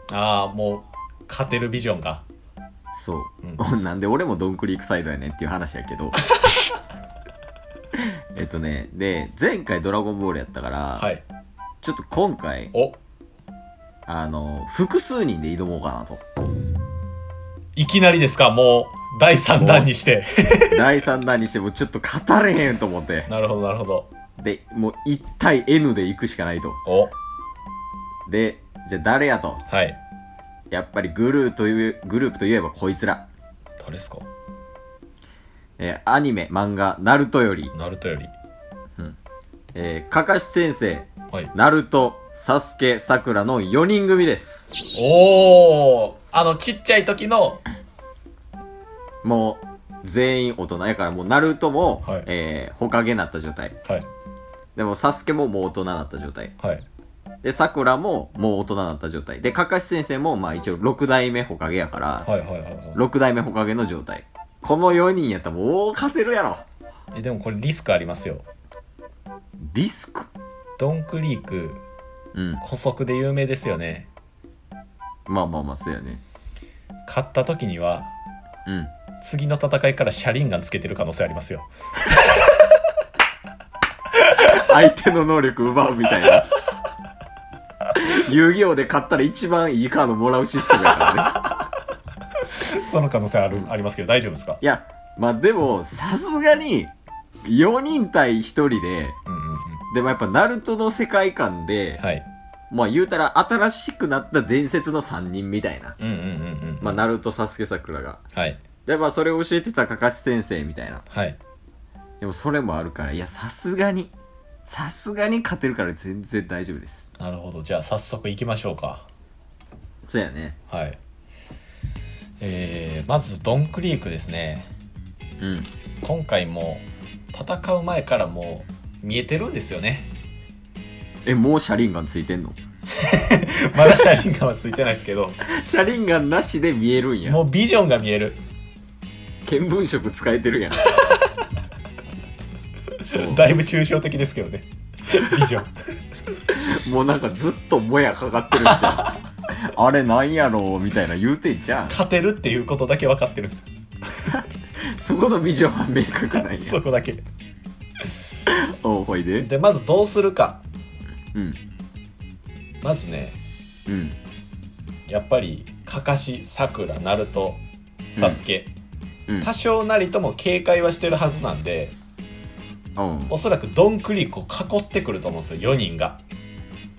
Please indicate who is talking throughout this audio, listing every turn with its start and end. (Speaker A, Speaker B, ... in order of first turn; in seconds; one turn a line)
Speaker A: 0.1-2.2
Speaker B: 2.9-6.2
Speaker B: 7.9-11.1
Speaker A: 11.0-11.2
Speaker B: 11.8-12.7
Speaker B: 14.1-16.2
Speaker A: 17.8-20.9
Speaker B: 19.5-19.9
Speaker B: 20.7-23.3
Speaker A: 23.3-24.1
Speaker B: 24.4-26.8
Speaker A: 26.8-27.1
Speaker B: 28.3-29.6
Speaker A: 29.7-30.0
Speaker B: 30.7-33.3
Speaker A: 33.8-34.2
Speaker B: 35.8-37.7
Speaker A: 37.7-38.3
Speaker B: 39.7-44.7
Speaker A: 44.9-47.6
Speaker B: 49.2-53.8
Speaker B: 54.8-56.5
Speaker A: 56.6-56.8
Speaker B: 57.4-62.3
Speaker A: 62.2-63.0
Speaker B: 62.9-66.7
Speaker A: 67.1-68.4
Speaker B: 69.6-70.3
Speaker A: 70.8-71.8
Speaker B: 72.3-72.6
Speaker A: 72.6-74.1
Speaker B: 75.3-76.2
Speaker A: 77.1-78.1
Speaker B: 78.7-78.9
Speaker A: 79.2-81.7
Speaker B: 84.4-86.5
Speaker B: 87.9-91.4
Speaker A: 90.8-91.7
Speaker A: 92.5-94.6
Speaker B: 94.6-96.9
Speaker B: 97.4-99.2
Speaker A: 99.3-99.8
Speaker B: 99.9-102.0
Speaker A: 102.0-102.2
Speaker B: 102.7-106.0
Speaker A: 106.0-107.0
Speaker B: 106.8-108.2
Speaker A: 108.3-108.6
Speaker B: 108.8-111.0
Speaker A: 111.1-111.4
Speaker B: 112.2-114.1
Speaker B: 114.7-117.1
Speaker A: 117.2-119.0
Speaker B: 120.1-120.6
Speaker A: 120.7-121.0
Speaker A: 122.4-124.7
Speaker B: 125.4-125.7
Speaker A: 126.0-130.1
Speaker B: 131.2-132.6
Speaker A: 133.0-135.4
Speaker B: 135.4-137.4
Speaker A: 137.2-138.4
Speaker B: 139.4-140.8
Speaker A: 140.8-141.2
Speaker A: 143.1-145.7
Speaker B: 143.1-143.4
Speaker B: 146.5-151.9
Speaker A: 148.6-149.1
Speaker A: 151.9-153.7
Speaker B: 154.2-156.8
Speaker A: 156.6-157.2
Speaker B: 158.4-159.5
Speaker A: 159.4-160.6
Speaker B: 161.3-161.6
Speaker A: 162.8-163.4
Speaker B: 163.9-164.2
Speaker A: 165.1-167.6
Speaker B: 168.2-168.4
Speaker A: 168.2-168.7
Speaker A: 169.4-171.9
Speaker B: 172.9-173.3
Speaker A: 173.3-176.2